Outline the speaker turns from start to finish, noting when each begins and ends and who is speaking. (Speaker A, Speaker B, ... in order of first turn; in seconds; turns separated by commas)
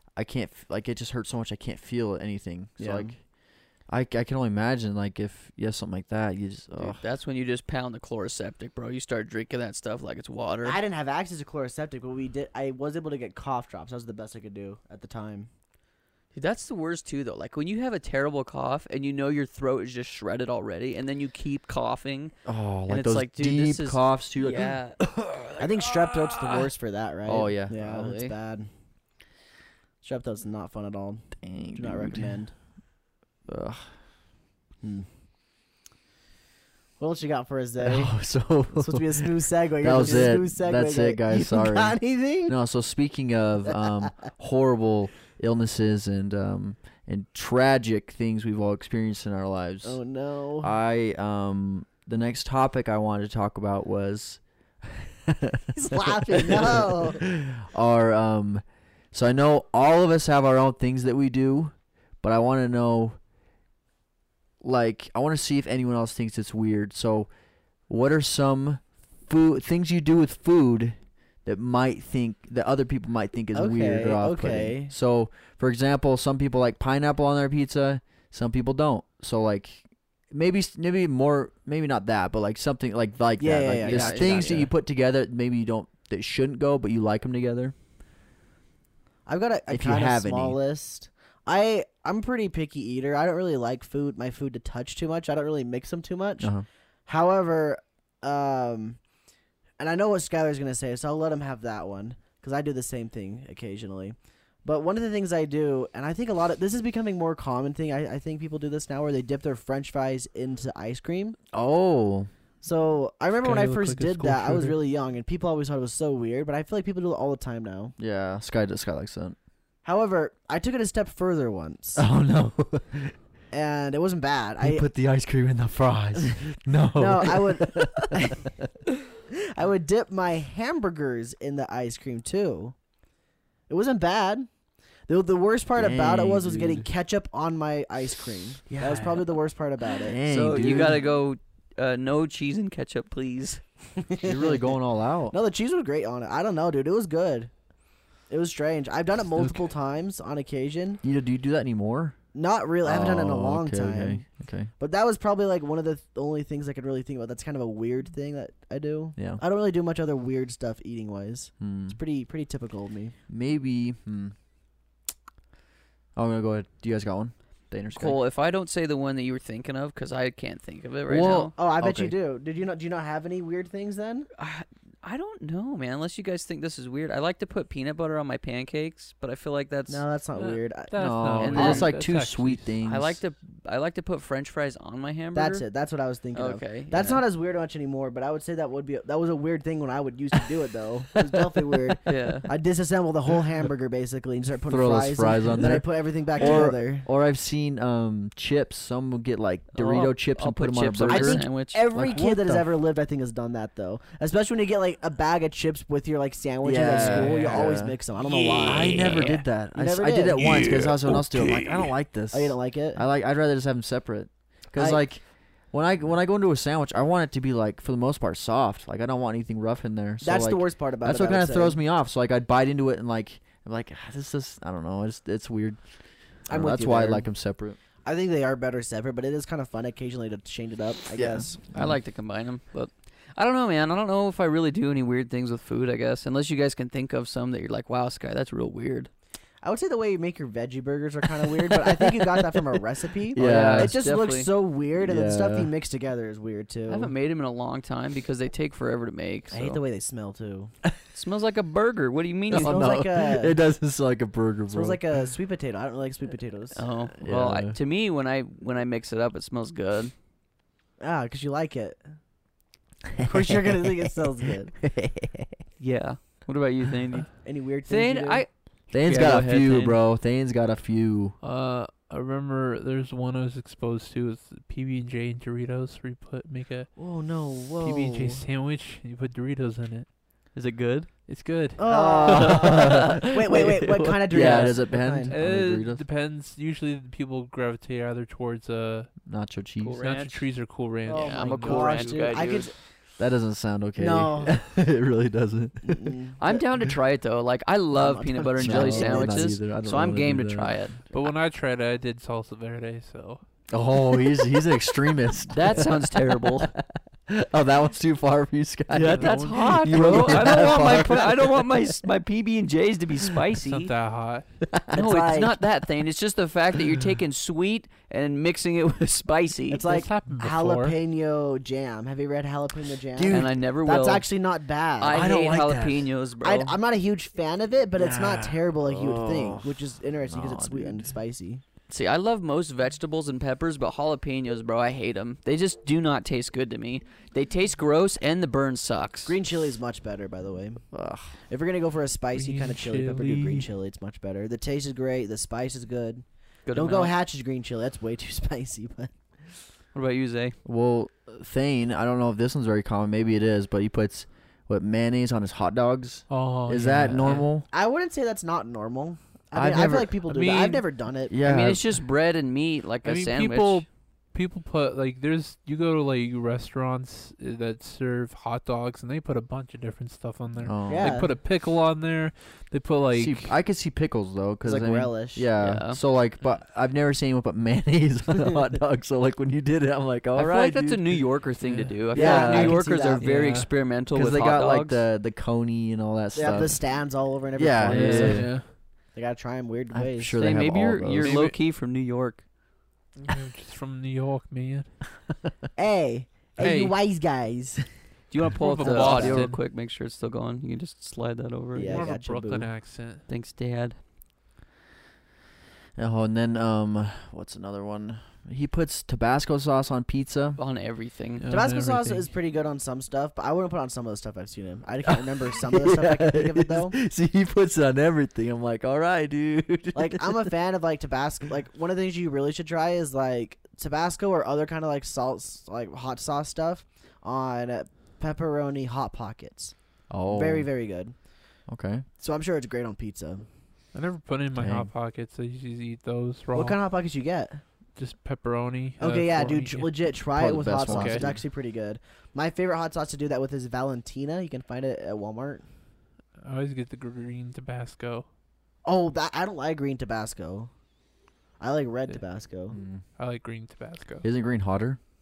Speaker A: 0.1-3.2, Speaker B: 2.8-3.1, Speaker A: 3.9-7.0, Speaker C: 6.8-10.8, Speaker B: 10.6-15.5, Speaker C: 16.3-22.3, Speaker A: 22.4-26.7, Speaker C: 22.9-25.0, Speaker B: 25.6-28.7, Speaker A: 27.2-27.8, Speaker C: 27.7-28.3, Speaker B: 30.0-32.5, Speaker A: 31.4-32.3, Speaker A: 33.5-33.9, Speaker B: 34.8-35.1, Speaker B: 37.0-38.1, Speaker A: 37.8-50.0, Speaker B: 38.7-42.5, Speaker B: 43.7-44.1, Speaker B: 49.8-50.7, Speaker A: 50.6-63.2, Speaker B: 55.7-57.2, Speaker A: 64.6-67.3, Speaker A: 67.9-87.7, Speaker B: 73.5-74.9, Speaker B: 83.4-84.7, Speaker C: 83.8-84.7, Speaker B: 89.2-96.5, Speaker A: 89.7-90.6, Speaker A: 96.4-96.6, Speaker B: 97.1-99.0, Speaker B: 99.8-111.4, Speaker A: 111.5-112.3, Speaker B: 112.6-117.9, Speaker D: 113.4-114.8, Speaker A: 118.0-119.3, Speaker B: 119.8-122.0, Speaker A: 122.0-123.1, Speaker B: 123.5-124.8, Speaker A: 124.6-128.7, Speaker B: 127.0-128.5, Speaker B: 129.3-132.7, Speaker B: 133.7-134.5, Speaker B: 135.1-140.2, Speaker A: 135.8-136.9, Speaker A: 138.7-139.2, Speaker A: 140.0-141.0, Speaker C: 140.2-143.6, Speaker B: 144.0-144.7, Speaker A: 144.2-145.3, Speaker B: 145.3-147.5, Speaker B: 148.3-151.0, Speaker A: 151.0-152.2, Speaker B: 152.3-154.2, Speaker A: 152.8-154.7, Speaker B: 154.8-163.1, Speaker A: 161.6-162.0, Speaker A: 163.3-164.3, Speaker A: 166.2-168.2, Speaker C: 167.9-171.5, Speaker A: 171.1-172.1, Speaker B: 171.6-174.3, Speaker C: 174.4-180.0, Speaker B: 179.9-180.9, Speaker D: 180.3-182.7, Speaker A: 181.0-183.2, Speaker C: 181.4-181.9, Speaker C: 182.8-185.6, Speaker B: 185.3-197.1, Speaker C: 186.3-187.2, Speaker A: 191.5-191.9, Speaker C: 192.1-192.5, Speaker A: 194.7-202.7, Speaker C: 199.7-201.8, Speaker B: 201.1-210.5, Speaker A: 206.6-208.0, Speaker D: 207.0-207.3, Speaker C: 208.2-209.4, Speaker A: 208.6-225.8, Speaker C: 210.3-211.9, Speaker B: 212.3-213.0, Speaker B: 220.2-221.8, Speaker A: 226.5-227.8, Speaker B: 226.5-227.3, Speaker B: 228.0-231.6, Speaker A: 231.1-232.0, Speaker C: 231.7-239.1, Speaker B: 239.6-247.1, Speaker A: 243.3-243.9, Speaker C: 243.4-244.5, Speaker A: 245.0-245.7, Speaker C: 246.9-249.8, Speaker B: 249.5-250.7, Speaker C: 251.1-252.9, Speaker B: 252.5-253.6, Speaker A: 252.5-255.0, Speaker B: 254.7-256.8, Speaker C: 256.7-260.1, Speaker A: 257.2-257.8, Speaker B: 261.0-262.0, Speaker B: 263.2-264.7, Speaker A: 264.9-265.3, Speaker C: 265.8-270.0, Speaker B: 267.4-268.4, Speaker A: 268.9-271.4, Speaker D: 271.4-276.9, Speaker B: 276.9-278.4, Speaker D: 277.8-280.1, Speaker C: 280.5-281.1, Speaker D: 281.3-281.8, Speaker B: 281.8-285.3, Speaker A: 281.9-283.2, Speaker C: 281.9-284.7, Speaker A: 284.3-286.0, Speaker D: 285.3-289.1, Speaker A: 289.3-290.0, Speaker C: 289.8-290.4, Speaker D: 290.0-292.4, Speaker B: 291.1-292.7, Speaker C: 291.1-292.7, Speaker A: 293.2-296.2, Speaker B: 294.0-294.6, Speaker B: 295.8-296.6, Speaker C: 296.4-301.1, Speaker B: 297.9-299.5, Speaker A: 298.6-300.8, Speaker D: 301.1-303.4, Speaker A: 303.7-311.7, Speaker C: 305.5-306.7, Speaker C: 308.9-313.9, Speaker D: 309.0-310.3, Speaker B: 310.1-310.6, Speaker D: 313.6-314.5, Speaker A: 314.7-314.9, Speaker B: 314.9-315.5, Speaker C: 314.9-319.8, Speaker B: 319.7-325.2, Speaker D: 319.8-320.9, Speaker A: 323.1-323.5, Speaker C: 323.3-324.2, Speaker C: 325.0-326.8, Speaker A: 325.1-326.1, Speaker B: 326.4-331.6, Speaker A: 327.9-331.1, Speaker C: 331.9-339.4, Speaker B: 339.2-340.8, Speaker A: 340.9-341.4, Speaker B: 341.5-349.1, Speaker D: 342.3-343.7, Speaker C: 346.6-347.1, Speaker C: 349.9-350.6, Speaker A: 350.6-357.7, Speaker D: 356.3-357.5, Speaker B: 357.7-361.4, Speaker A: 359.5-360.1, Speaker D: 360.3-360.8, Speaker A: 361.3-361.9, Speaker C: 361.4-363.8, Speaker D: 363.0-373.5, Speaker A: 370.6-371.2, Speaker B: 370.9-371.3, Speaker A: 373.1-381.0, Speaker B: 374.6-375.4, Speaker C: 375.6-376.0, Speaker C: 380.3-385.0, Speaker D: 381.6-382.0, Speaker B: 382.1-383.3, Speaker A: 382.1-382.8, Speaker D: 383.2-383.7, Speaker A: 384.1-386.8, Speaker B: 386.3-390.4, Speaker A: 387.6-388.6, Speaker D: 387.9-388.7, Speaker A: 389.9-391.3, Speaker C: 390.4-392.4, Speaker D: 391.2-391.6, Speaker D: 393.2-394.9, Speaker B: 395.8-397.8, Speaker D: 396.6-396.9, Speaker C: 398.3-402.1, Speaker D: 398.6-399.6, Speaker B: 398.8-399.4, Speaker B: 401.7-402.7, Speaker D: 401.9-403.2, Speaker C: 403.3-404.0, Speaker A: 406.0-410.6, Speaker C: 410.6-411.4, Speaker D: 411.4-412.3, Speaker B: 411.5-416.9, Speaker A: 415.1-420.5, Speaker B: 419.9-429.7, Speaker A: 430.1-430.7, Speaker B: 430.3-431.1, Speaker A: 431.7-432.0, Speaker B: 432.2-433.4, Speaker D: 433.9-436.8, Speaker A: 434.6-434.9, Speaker B: 436.5-437.6, Speaker D: 437.9-440.1, Speaker B: 439.0-445.6, Speaker A: 440.3-441.4, Speaker D: 440.9-441.2, Speaker D: 446.4-448.2, Speaker B: 448.8-450.7, Speaker B: 451.6-452.8, Speaker A: 452.7-453.0, Speaker D: 453.2-454.2, Speaker A: 454.2-455.0